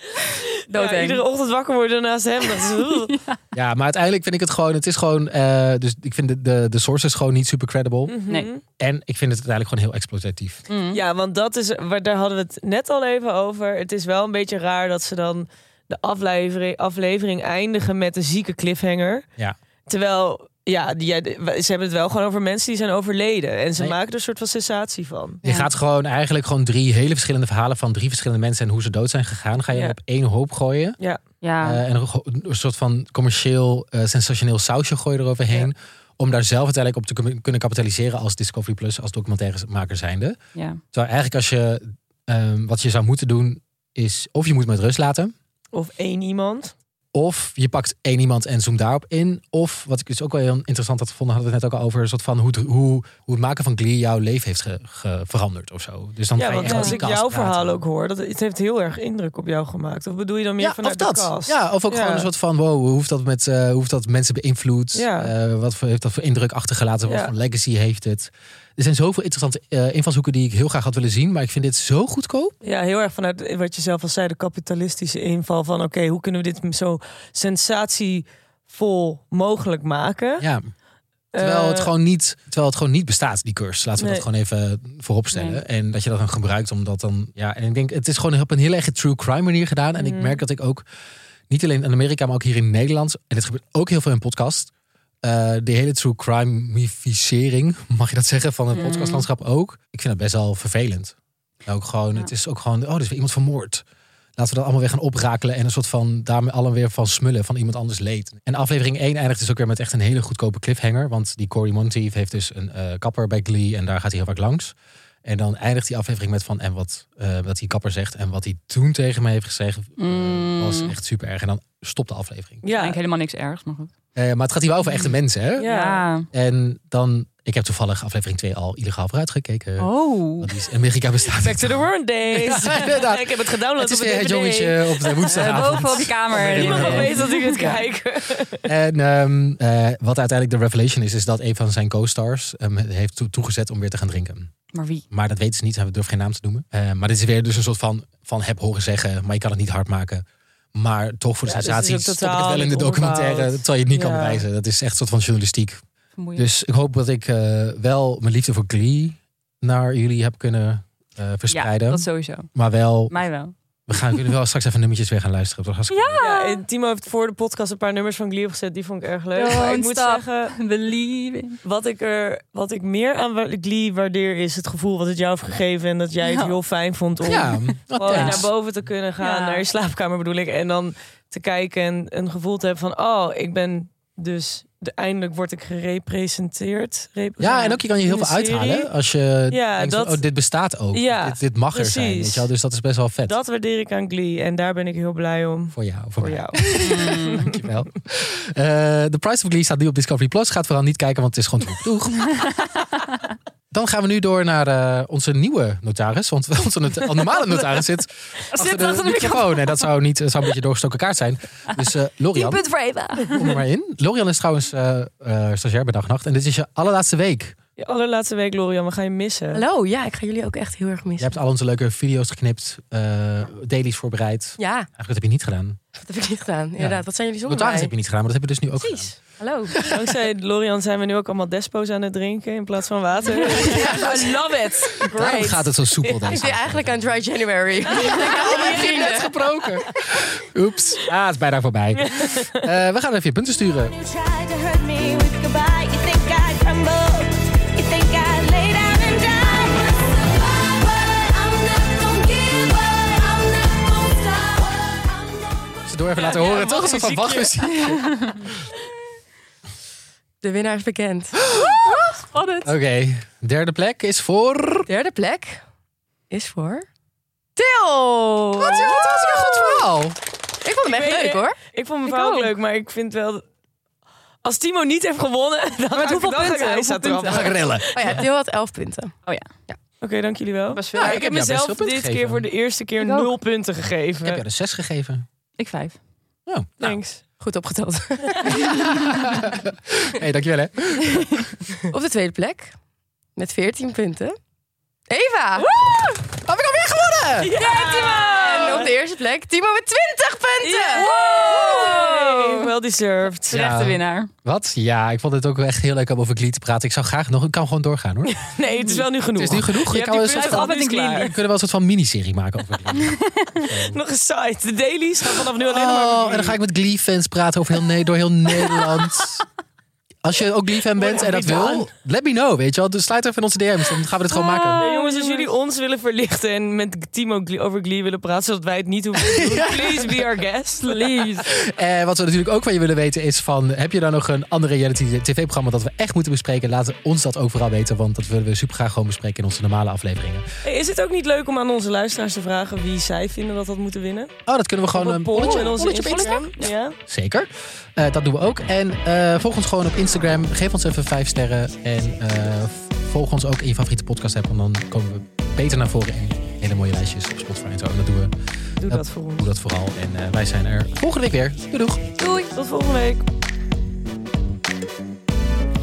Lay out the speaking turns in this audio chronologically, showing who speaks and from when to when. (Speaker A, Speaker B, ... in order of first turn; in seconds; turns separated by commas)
Speaker A: 0.7-1.2, Speaker B: 0.7-3.2, Speaker A: 2.6-3.4, Speaker C: 3.5-8.2, Speaker B: 8.1-8.6, Speaker C: 8.8-10.7, Speaker A: 10.7-11.0, Speaker B: 10.9-19.3, Speaker B: 19.9-25.4, Speaker A: 25.4-25.7, Speaker C: 25.4-31.0, Speaker B: 29.7-30.0, Speaker A: 31.4-31.8, Speaker C: 31.6-40.4, Speaker A: 40.5-40.8, Speaker C: 40.9-45.3, Speaker B: 45.7-46.7, Speaker C: 47.1-57.8, Speaker B: 56.4-62.3, Speaker A: 56.6-57.0, Speaker C: 60.6-72.5, Speaker B: 64.9-65.3, Speaker B: 67.0-67.3, Speaker B: 72.6-80.5, Speaker C: 80.4-80.7, Speaker B: 81.3-81.9, Speaker C: 81.4-90.8, Speaker B: 84.0-84.3, Speaker A: 85.3-85.6, Speaker B: 90.0-90.4, Speaker C: 91.5-94.7, Speaker C: 95.2-103.8, Speaker A: 98.7-99.3, Speaker C: 104.4-122.6, Speaker A: 120.0-120.9, Speaker B: 122.6-123.0, Speaker A: 122.7-123.9, Speaker C: 124.2-125.7, Speaker A: 124.8-126.3, Speaker B: 125.6-126.0, Speaker C: 126.3-137.2, Speaker A: 129.8-130.5, Speaker B: 131.3-135.7, Speaker A: 135.3-137.8, Speaker B: 136.3-138.7, Speaker C: 138.7-144.5, Speaker A: 144.7-145.0, Speaker C: 145.1-155.8, Speaker B: 151.4-154.4, Speaker A: 156.2-156.5, Speaker C: 156.3-163.2, Speaker A: 161.5-162.5, Speaker A: 163.1-164.2, Speaker C: 163.9-166.2, Speaker A: 165.9-166.6, Speaker B: 166.2-170.6, Speaker A: 169.3-171.6, Speaker B: 171.6-188.9, Speaker A: 176.2-176.6, Speaker C: 177.3-178.5, Speaker A: 177.3-178.5, Speaker A: 179.2-179.7, Speaker C: 187.4-193.4, Speaker B: 189.5-190.2, Speaker B: 190.9-192.5, Speaker B: 193.3-197.6, Speaker C: 195.7-202.5, Speaker A: 196.8-197.5, Speaker C: 203.7-212.6, Speaker A: 208.5-209.9, Speaker A: 212.3-213.6, Speaker C: 213.3-217.6, Speaker B: 217.8-219.6, Speaker D: 219.5-221.4, Speaker C: 221.2-225.8, Speaker D: 224.6-224.9, Speaker D: 226.0-227.9, Speaker C: 226.8-229.2, Speaker D: 229.3-230.0, Speaker B: 229.8-236.3, Speaker C: 233.5-234.3, Speaker C: 235.0-237.2, Speaker D: 236.2-239.7, Speaker C: 237.9-243.9, Speaker B: 238.0-239.2, Speaker B: 241.9-242.4, Speaker E: 243.9-249.9, Speaker E: 250.7-255.4, Speaker C: 255.9-258.3, Speaker B: 256.1-257.9, Speaker A: 258.0-258.4, Speaker D: 260.4-261.5, Speaker A: 261.5-262.7, Speaker C: 262.6-264.9, Speaker D: 264.9-265.6, Speaker D: 266.3-266.9, Speaker D: 267.6-269.2, Speaker C: 268.6-270.2, Speaker A: 269.1-269.8, Speaker D: 270.6-271.6, Speaker B: 270.8-273.4, Speaker A: 272.1-272.5, Speaker B: 274.4-277.5, Speaker A: 275.9-277.5, Speaker C: 277.3-278.2, Speaker D: 277.9-279.1, Speaker A: 279.3-279.5, Speaker B: 280.0-284.4, Speaker A: 280.7-281.2, Speaker C: 280.9-282.5, Speaker A: 283.0-283.3, Speaker C: 284.2-285.2, Speaker A: 285.6-286.0, Speaker C: 286.5-287.0, Speaker B: 286.8-287.2, Speaker D: 287.4-288.6, Speaker C: 288.5-291.5, Speaker D: 291.9-292.8, Speaker D: 293.4-294.4, Speaker D: 295.1-295.7, Speaker B: 295.6-296.1, Speaker C: 296.4-297.5, Speaker B: 297.4-298.9, Speaker A: 297.6-298.8, Speaker D: 297.6-301.1, Speaker B: 300.6-303.8, Speaker A: 300.9-302.6, Speaker A: 303.5-304.3, Speaker C: 303.5-308.4, Speaker B: 308.4-311.3, Speaker A: 308.7-309.0, Speaker C: 309.4-314.0, Speaker A: 310.3-311.0, Speaker B: 313.7-316.6, Speaker C: 315.6-319.4, Speaker C: 320.2-324.9, Speaker B: 320.9-321.9, Speaker A: 324.3-325.5, Speaker B: 324.8-331.4, Speaker C: 329.2-330.1, Speaker A: 330.8-331.5, Speaker C: 331.4-340.5, Speaker B: 340.6-344.4, Speaker C: 344.5-346.5, Speaker B: 344.9-347.0, Speaker A: 345.4-346.7, Speaker C: 347.1-358.3, Speaker B: 358.8-359.5, Speaker C: 358.9-362.1, Speaker B: 362.2-363.2